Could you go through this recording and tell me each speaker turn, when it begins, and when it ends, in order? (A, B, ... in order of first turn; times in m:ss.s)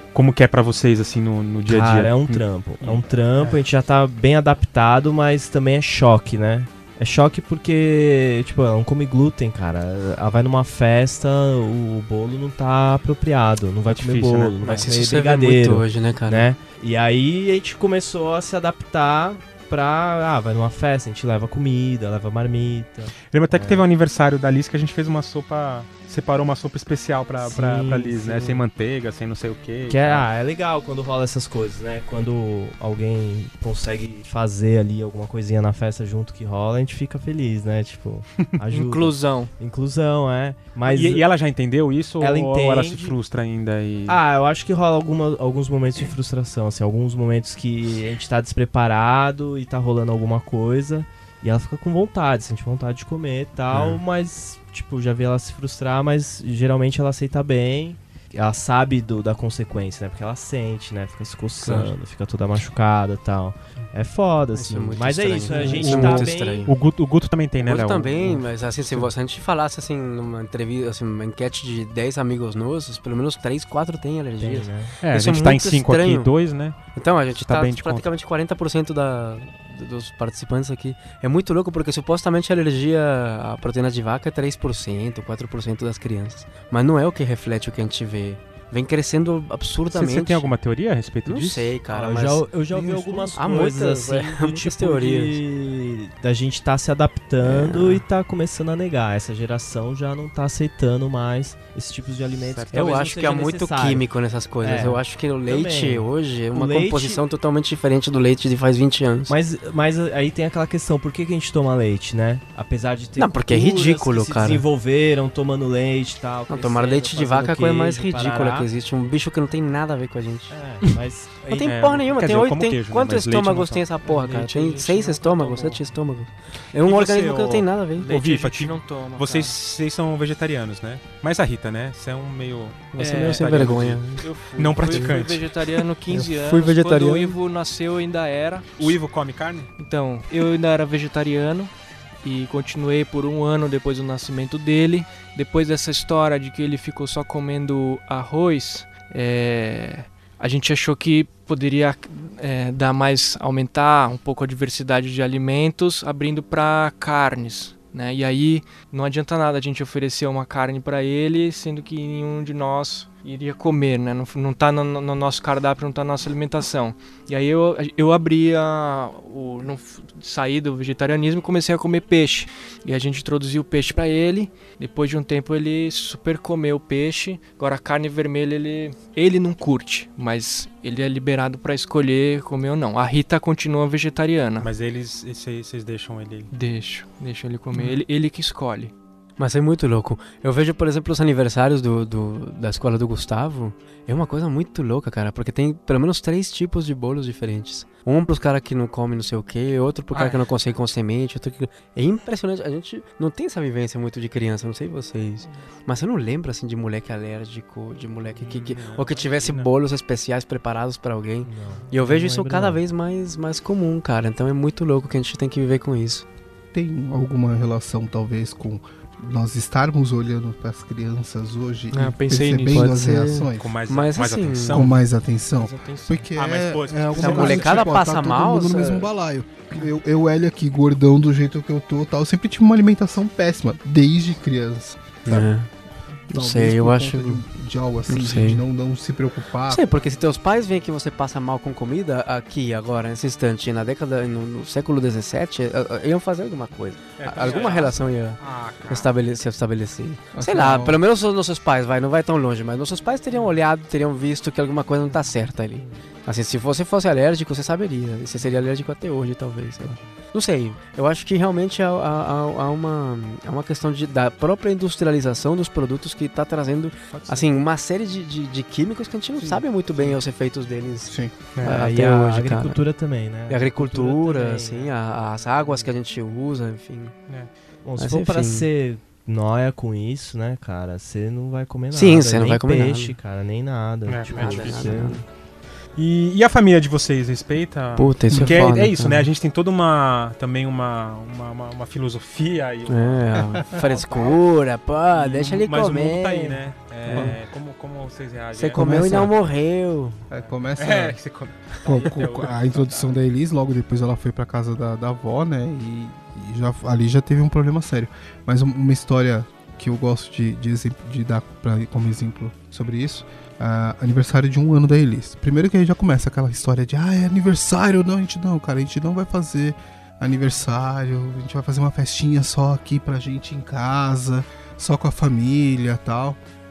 0:00.1-0:03.6 A
0:01.7-0:23.8 B
0:13.9-0:15.0 A
0:14.6-0:16.5 C
0:23.3-0:30.2 A
0:27.4-0:28.6 B
0:29.9-0:41.2 B
0:38.7-0:39.5 D
0:40.8-0:44.2 A
0:42.2-0:43.2 B
0:44.1-1:06.7 B
0:53.7-0:54.0 A
1:01.6-1:01.9 A
1:04.5-1:06.7 C
1:05.5-1:08.4 A
1:07.6-1:16.3 C
1:08.2-1:09.1 B
1:14.4-1:14.9 B
1:15.0-1:16.8 A
1:16.9-1:30.5 C
1:17.3-1:18.0 A
1:29.9-1:31.7 A
1:31.2-1:35.4 C
1:31.9-1:44.1 B
1:32.7-1:33.4 A
1:37.4-1:38.0 C
1:42.4-1:42.7 A
1:42.7-1:49.3 C
1:44.6-1:47.2 B
1:49.3-1:58.7 B
1:53.2-1:54.6 C
1:56.5-2:00.9 C
2:00.5-2:01.8 B
2:01.5-2:08.1 C
2:01.6-2:03.8 A
2:04.0-2:05.8 D
2:06.8-2:15.8 A
2:08.0-2:09.6 D
2:12.9-2:14.3 C
2:13.0-2:19.0 D
2:16.1-2:17.4 C
2:18.8-2:19.7 A
2:19.8-3:04.7 D
3:04.6-3:06.5 A
3:06.5-3:08.9 D
3:09.4-3:36.2 C
3:20.1-3:20.4 A
3:28.4-3:29.7 A
3:31.4-3:32.8 B
3:36.7-3:43.7 E
3:41.9-3:43.0 D
3:42.7-3:44.9 C
3:43.6-3:45.0 A
3:44.7-3:55.5 E
3:45.5-3:46.3 D
3:46.3-3:48.2 A
3:47.2-3:49.1 C
3:55.2-3:55.7 C
3:56.3-3:59.9 E
3:56.3-3:57.4 C
3:58.1-3:58.6 C
3:59.7-4:32.8 C
4:07.2-4:09.1 A
4:10.3-4:11.0 E
4:27.1-4:27.4 A
4:29.4-4:30.2 B
4:31.1-4:31.3 E
4:31.6-4:34.9 B
4:33.5-4:37.1 C
4:35.6-4:35.9 B
4:37.8-4:45.2 B
4:38.0-4:38.7 C
4:41.9-4:43.2 C
4:44.0-4:45.1 A
4:44.3-4:45.2 C
4:46.0-4:54.4 A
4:48.0-4:49.3 C
4:48.3-4:48.6 E
4:52.9-4:57.4 C
4:55.1-4:59.3 A
4:57.1-4:57.4 E
4:58.5-5:00.2 C
4:58.7-4:59.3 E
5:00.3-5:01.2 E
5:00.3-5:03.1 A
5:01.8-5:26.4 E